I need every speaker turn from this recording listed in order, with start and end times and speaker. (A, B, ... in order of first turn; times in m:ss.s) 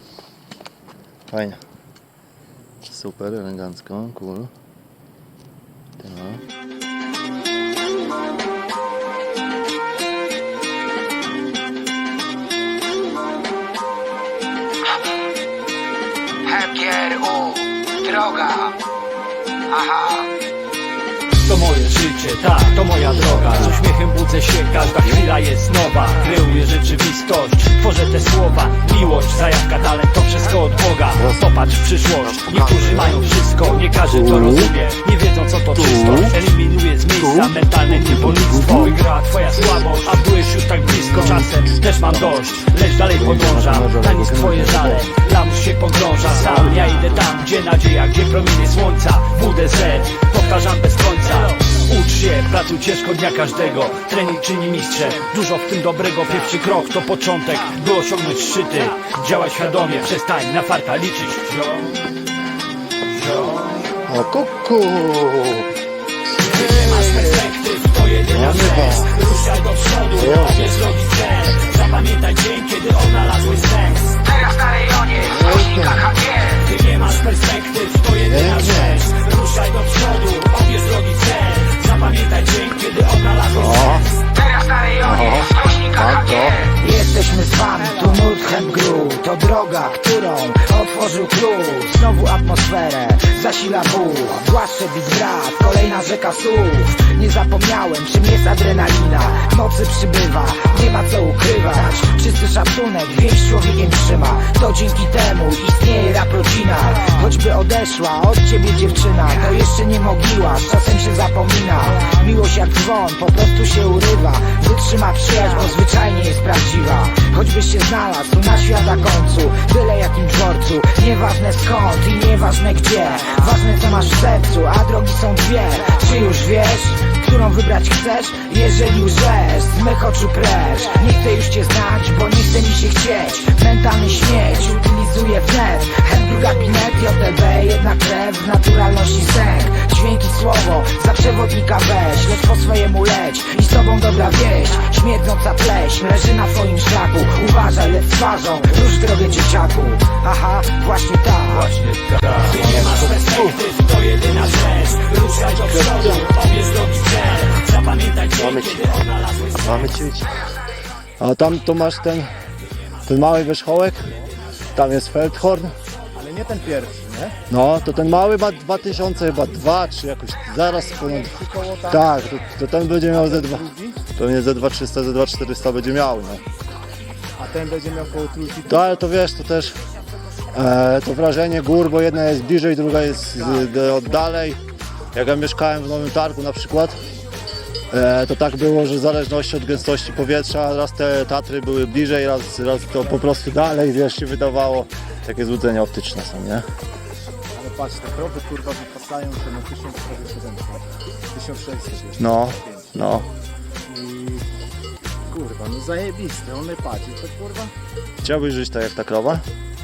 0:01.3-0:01.6 A
0:02.8-0:04.5 A
0:06.0-0:06.4 A
0:16.4-0:18.8 B
0:19.7-0:20.3 B
0:21.4-1:01.9 C
0:23.0-0:23.9 A
0:24.9-0:25.2 A
0:31.1-0:31.4 A
0:32.2-0:33.2 A
0:34.0-0:34.7 A
0:35.7-0:36.4 A
0:37.1-0:39.0 A
0:40.9-0:42.5 A
0:43.1-0:45.2 A
1:03.1-1:03.9 C
1:04.0-1:05.7 A
1:06.4-1:07.5 A
1:06.4-1:14.2 C
1:08.3-1:09.3 A
1:10.1-1:10.8 A
1:14.3-1:16.5 B
1:15.2-1:16.1 A
1:16.6-1:24.1 C
1:18.2-1:19.1 A
1:23.6-1:24.1 A
1:24.4-2:31.7 B
1:25.0-1:26.7 A
2:31.5-2:40.0 C
2:32.5-2:33.6 A
2:39.7-2:40.2 A
2:41.2-2:42.3 A
2:43.0-2:44.1 A
2:44.7-2:45.7 A
2:46.1-2:47.4 D
2:47.5-2:53.6 A
2:50.9-2:52.2 D
2:53.1-2:54.0 D
2:54.2-2:56.4 A
2:57.4-2:58.9 D
2:58.7-2:59.8 A
3:00.5-3:04.6 A
3:03.3-3:04.2 D
3:05.1-3:07.0 A
3:07.9-3:16.6 A
3:17.5-3:22.9 D
3:22.2-3:23.3 A
3:23.9-3:24.4 D
3:25.3-3:27.7 D
3:28.2-3:29.4 A